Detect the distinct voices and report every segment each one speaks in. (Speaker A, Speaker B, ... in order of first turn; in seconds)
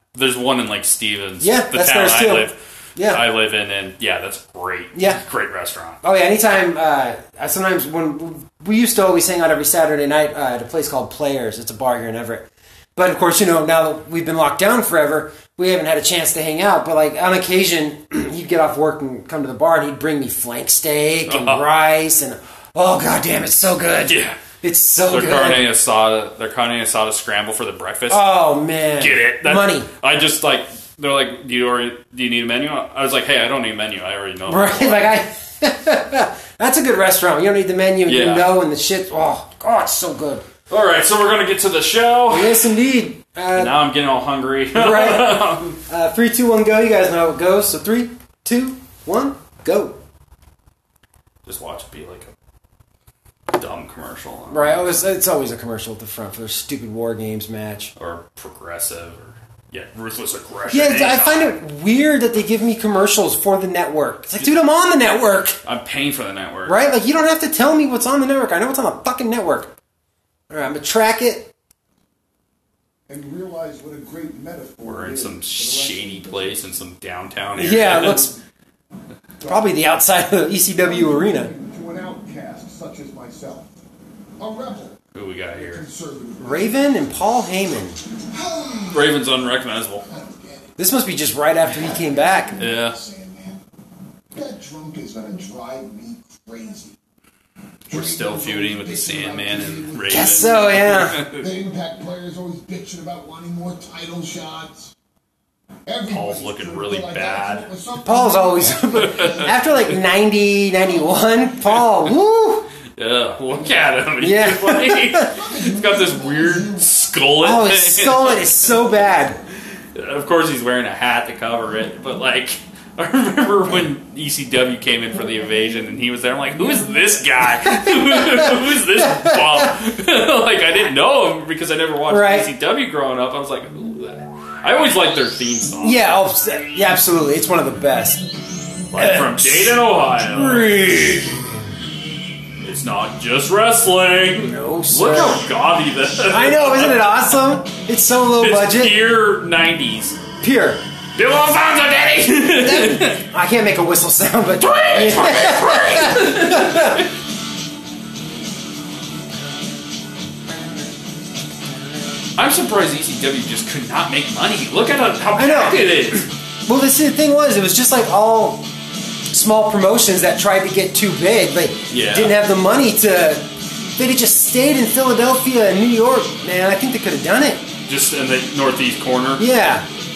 Speaker A: 0.1-6.0, 21.3-21.6, 24.0-24.4, 25.1-28.3, 29.0-35.1, 38.1-38.5, 40.7-42.7, 43.5-45.8, 51.4-52.3, 53.5-55.0, 58.0-61.5, 65.6-66.8, 74.8-78.3, 85.1-85.8, 88.9-90.0, 92.6-93.0, 97.9-101.5, 106.0-107.7, 108.9-109.5, 112.9-118.7, 119.9-136.2, 138.9-140.8, 142.6-147.2, 148.4-150.2, 151.1-153.2, 154.6-157.1, 162.3-166.3, 171.9-172.4, 177.9-179.5
Speaker B: 1.4-3.2, 4.9-5.2, 6.0-25.6, 28.1-29.9, 34.5-40.4, 42.3-43.8, 44.7-50.0, 54.5-57.9, 60.7-65.6, 66.7-69.7, 70.5-71.5, 77.5-78.3, 79.4-81.5, 86.4-88.0, 90.8-92.6, 100.1-101.2, 108.0-112.7, 114.2-115.4, 117.4-119.4, 127.6-129.8, 132.1-132.5, 135.8-138.2, 138.9-141.6, 144.4-145.5, 146.2-148.9, 150.4-150.8, 152.5-157.0, 165.3-168.7, 169.3-177.6, 179.4-179.8
Speaker C: 73.1-76.7, 79.4-79.7, 80.8-83.7, 84.4-85.0, 85.5-86.8, 88.3-89.3, 90.1-90.7, 91.6-93.6, 94.3-97.0, 97.8-104.9, 105.8-109.5, 115.3-116.9